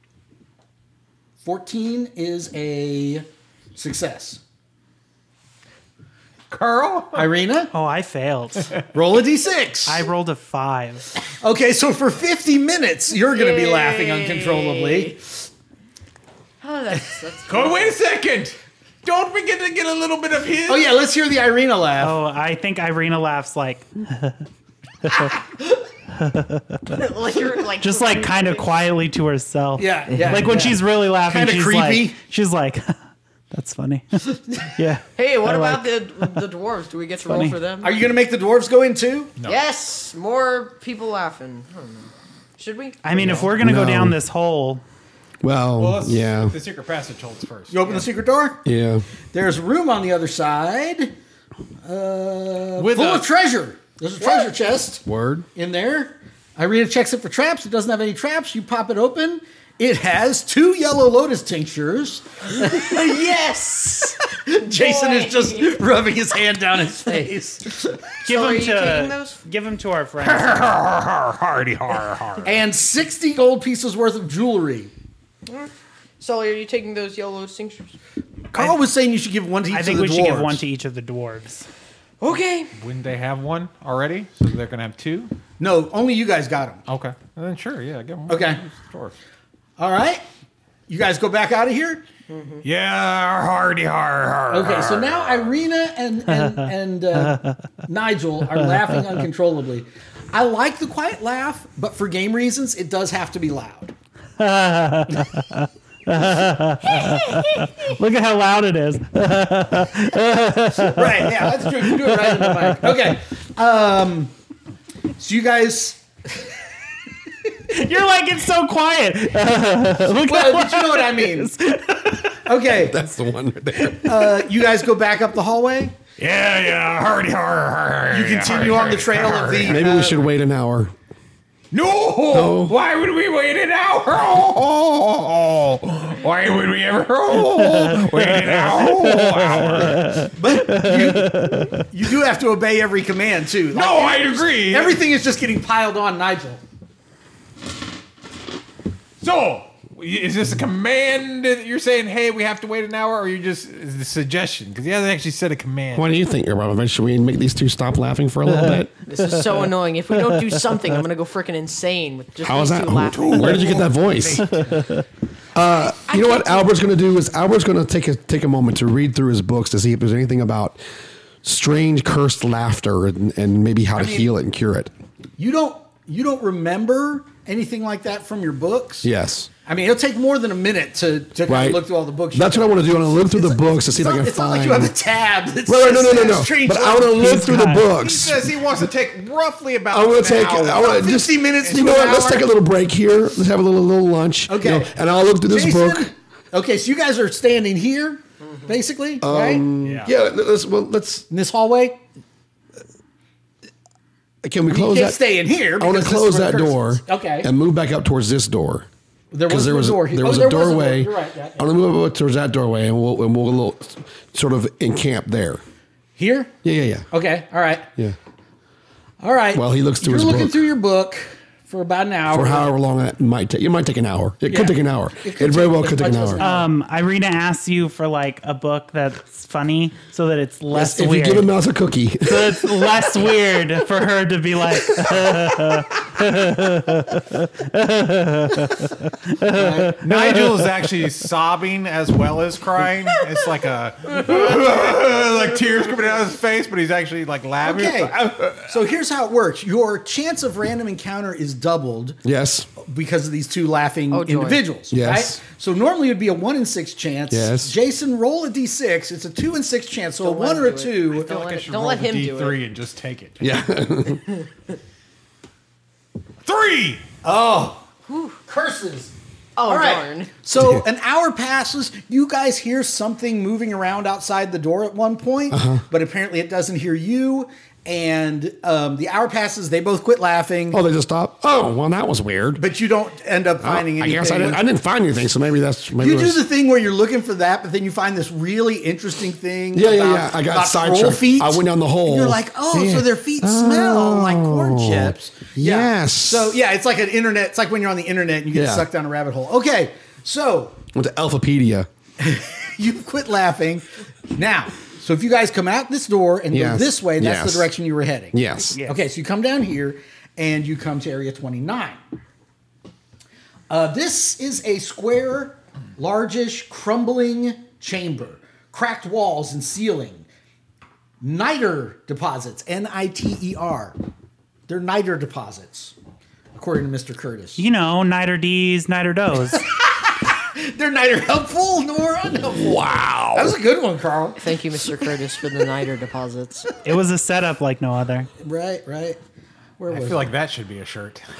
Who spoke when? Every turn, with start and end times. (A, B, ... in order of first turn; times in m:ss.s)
0:01.4-0:04.4 A
0:06.5-0:07.3 B
0:07.1-0:07.7 A
0:07.7-0:08.7 C
0:08.9-0:10.0 A
0:09.8-0:11.1 C
0:11.4-0:15.2 A
0:13.3-0:15.2 D
0:16.6-0:18.0 D
0:17.5-0:21.0 B
0:20.6-0:22.2 A
0:22.0-0:24.4 C
0:25.0-0:25.3 C
0:26.1-0:27.0 C
0:26.9-0:28.7 D
0:27.8-0:33.0 C
0:29.8-0:32.2 A
0:30.1-0:30.6 D
0:33.5-0:36.4 C
0:35.2-0:38.0 D
0:37.2-0:37.6 C
0:37.8-0:39.3 A
0:39.4-0:43.4 D
0:43.0-0:44.8 C
0:43.1-0:43.5 B
0:43.6-0:44.2 E
0:45.4-0:46.5 E
0:45.8-0:48.1 B
0:47.7-0:48.6 A
0:48.6-0:49.0 E
0:49.3-0:51.1 A
0:51.8-1:03.3 A
0:52.8-0:53.3 B
0:55.0-0:55.4 E
1:02.5-1:05.8 D
1:04.3-1:08.0 A
1:08.2-1:09.4 D
1:08.2-1:10.8 C
1:10.2-1:12.5 B
1:12.4-1:14.9 A
1:15.5-1:18.0 D
1:18.5-1:20.6 A
1:18.5-1:18.8 C
1:19.7-1:21.7 C
1:22.2-1:22.7 D
1:22.8-1:25.3 B
1:25.6-1:26.8 A
1:26.9-1:29.1 B
1:28.3-1:28.6 A
1:29.8-1:30.2 A
1:30.9-1:32.0 A
1:32.3-1:32.6 D
1:32.6-1:35.6 B
1:34.5-1:43.9 A
1:36.4-1:37.5 C
1:44.4-1:53.1 C
1:50.9-1:54.3 A
1:55.2-1:56.4 A
1:57.7-2:02.4 C
2:00.2-2:01.5 A
2:02.4-2:03.0 A
2:02.7-2:04.4 E
2:03.9-2:06.0 A
2:06.2-2:09.8 B
2:08.1-2:10.2 A
2:09.6-2:10.9 E
2:11.7-2:20.3 B
2:12.3-2:12.8 E
2:17.6-2:21.8 C
2:20.4-2:26.6 A
2:23.7-2:25.0 B
2:29.2-2:36.1 B
2:35.9-2:38.9 E
2:38.5-2:39.5 C
2:39.1-2:43.8 D
2:40.3-2:40.6 C
2:42.4-2:44.5 E
2:43.1-2:44.9 B
2:44.5-2:45.0 C
2:45.5-2:50.8 E
2:45.9-2:46.8 D
2:51.4-2:54.9 E
2:54.0-2:54.3 A
2:55.4-2:59.1 A
2:59.0-2:59.5 E
2:59.6-3:07.4 A
3:01.5-3:04.9 E
3:05.6-3:08.5 E
3:07.0-3:07.9 C
3:07.9-3:10.9 B
3:09.9-3:16.1 E
3:10.5-3:12.5 A
3:11.6-3:12.0 B
3:14.5-3:14.9 A
3:15.4-3:19.7 A
3:18.4-3:18.7 D
3:19.2-3:21.3 E
3:19.8-3:20.1 B
3:21.3-3:22.0 A
3:24.4-3:28.9 E
3:24.7-3:27.5 A
3:29.3-3:31.7 A
3:29.5-3:35.6 E
3:36.2-3:36.5 A
3:36.6-3:37.1 E
3:37.1-3:37.9 A
3:39.2-3:42.7 A
3:39.5-3:40.7 E
3:42.3-3:46.4 E
3:44.5-3:46.7 A
3:46.4-3:51.5 C
3:50.7-3:52.9 E
3:52.2-4:00.6 C
3:59.5-4:00.0 A
4:00.0-4:08.6 B
4:07.6-4:12.2 A
4:12.2-4:12.7 E
4:12.8-4:21.2 A
4:14.1-4:14.6 D
4:14.9-4:15.4 E
4:17.3-4:17.7 E
4:20.2-4:22.6 D
4:21.1-4:23.5 B
4:23.4-4:24.3 E
4:26.4-4:27.0 B
4:27.2-4:27.9 A
4:28.1-4:28.4 D
4:28.4-4:29.1 A
4:29.6-4:30.3 D
4:29.6-4:40.8 A
4:30.5-4:30.8 E
4:35.5-4:35.8 E
4:40.7-4:42.6 E
4:42.6-4:44.6 A
4:43.6-4:46.4 E
4:46.0-5:00.8 A
4:49.7-4:56.6 E
4:58.5-4:58.9 E
5:00.9-5:01.9 E
5:02.2-5:12.0 A
5:06.5-5:07.7 E
5:08.3-5:08.8 E
5:13.7-5:20.2 A
5:21.2-5:24.0 A
5:24.7-5:25.9 A
5:26.6-5:27.6 A
5:27.6-5:29.6 C
5:29.5-5:34.4 A
5:32.4-5:33.6 E
5:34.4-5:36.7 D
5:36.8-5:38.3 C
5:38.4-5:39.2 A
5:39.8-5:40.3 A
5:39.9-5:41.2 B